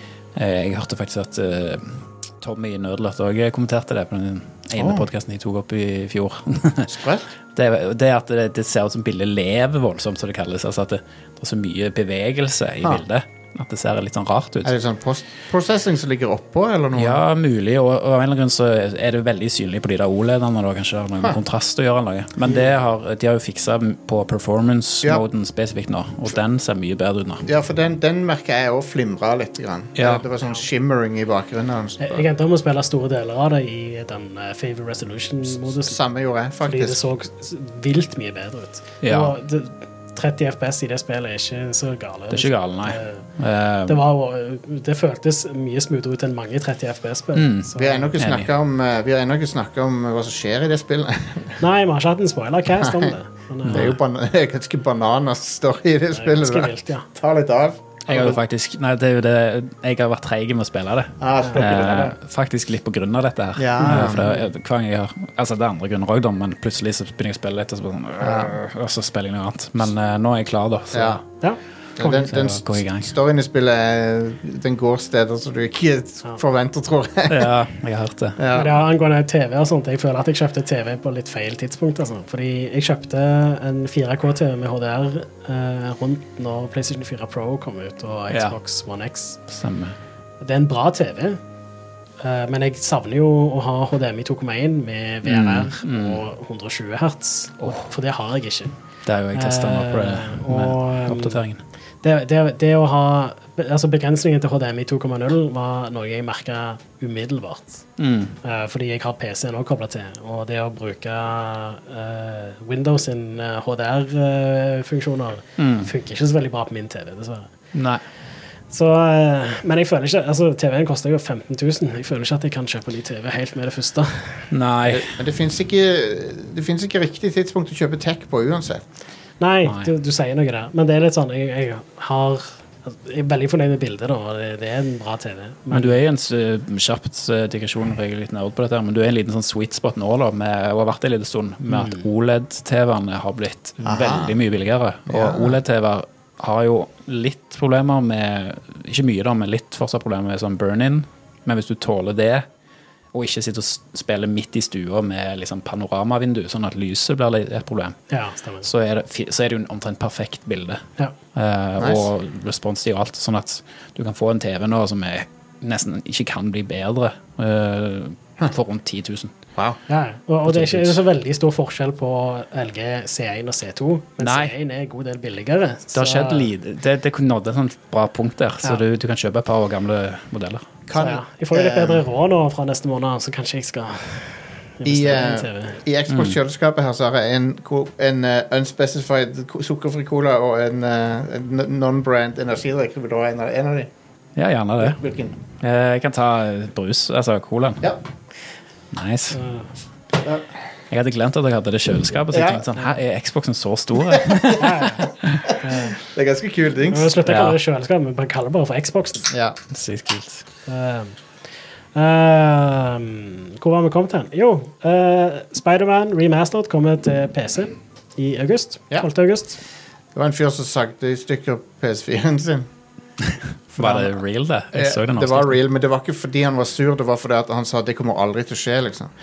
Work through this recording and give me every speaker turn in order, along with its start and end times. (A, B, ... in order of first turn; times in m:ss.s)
0:00.4-0:06.9 A
0:04.8-0:05.1 B
0:06.9-0:07.3 B
0:07.6-0:14.7 A
0:14.6-0:17.2 B
0:17.0-0:27.5 A
0:27.5-0:32.2 B
0:30.0-0:30.2 A
0:32.0-0:36.0 C
0:35.7-0:37.0 B
0:36.6-0:43.2 C
0:39.0-0:39.4 A
0:42.3-0:44.0 A
0:43.9-0:48.1 C
0:47.4-0:48.5 A
0:47.8-0:51.6 B
0:51.6-0:53.9 C
0:52.8-0:53.1 B
0:53.7-0:54.0 A
0:53.7-0:58.4 B
0:56.1-0:57.1 C
0:58.1-1:11.2 A
1:01.2-1:02.1 B
1:01.4-1:01.7 C
1:03.6-1:04.4 B
1:08.2-1:08.6 B
1:10.9-1:11.2 B
1:12.0-1:17.5 B
1:12.0-1:13.1 A
1:17.3-1:18.4 A
1:18.4-1:18.8 B
1:18.5-1:29.4 C
1:28.3-1:28.6 A
1:29.5-1:30.0 A
1:30.4-1:31.4 C
1:32.2-1:38.7 C
1:35.2-1:36.2 A
1:37.6-1:37.9 A
1:39.1-1:41.6 A
1:39.3-1:41.4 C
1:42.0-1:47.8 C
1:48.0-1:48.4 A
1:48.4-1:57.5 C
1:55.6-1:55.9 A
1:57.7-1:58.0 A
1:58.7-2:04.5 C
2:04.5-2:05.2 A
2:04.9-2:08.8 B
2:09.4-2:16.0 C
2:09.6-2:09.9 A
2:15.7-2:32.4 A
2:21.7-2:22.0 C
2:23.8-2:24.4 B
2:25.1-2:25.6 B
2:33.1-2:38.0 A
2:38.1-2:38.7 C
2:38.6-2:49.3 A
2:41.8-2:42.1 B
2:49.9-2:56.5 C
2:50.5-2:51.0 A
2:54.2-2:54.5 A
2:55.9-3:00.6 A
3:00.9-3:02.0 B
3:01.0-3:05.8 C
3:04.8-3:13.9 B
3:06.1-3:06.4 A
3:14.4-3:15.0 A
3:14.8-3:15.4 B
3:15.6-3:17.9 A
3:18.9-3:19.4 A
3:19.3-3:19.7 C
3:20.9-3:25.5 A
3:22.3-3:22.7 B
3:24.6-3:25.1 C
3:25.6-3:26.0 C
3:26.0-3:27.2 B
3:26.9-3:29.3 C
3:27.3-3:27.6 A
3:29.3-3:29.6 B
3:29.7-3:30.5 A
3:30.7-3:31.2 C
3:32.0-3:39.6 C
3:40.1-3:42.7 B
3:43.7-3:44.2 B
3:43.8-3:45.6 A
3:44.7-3:49.1 B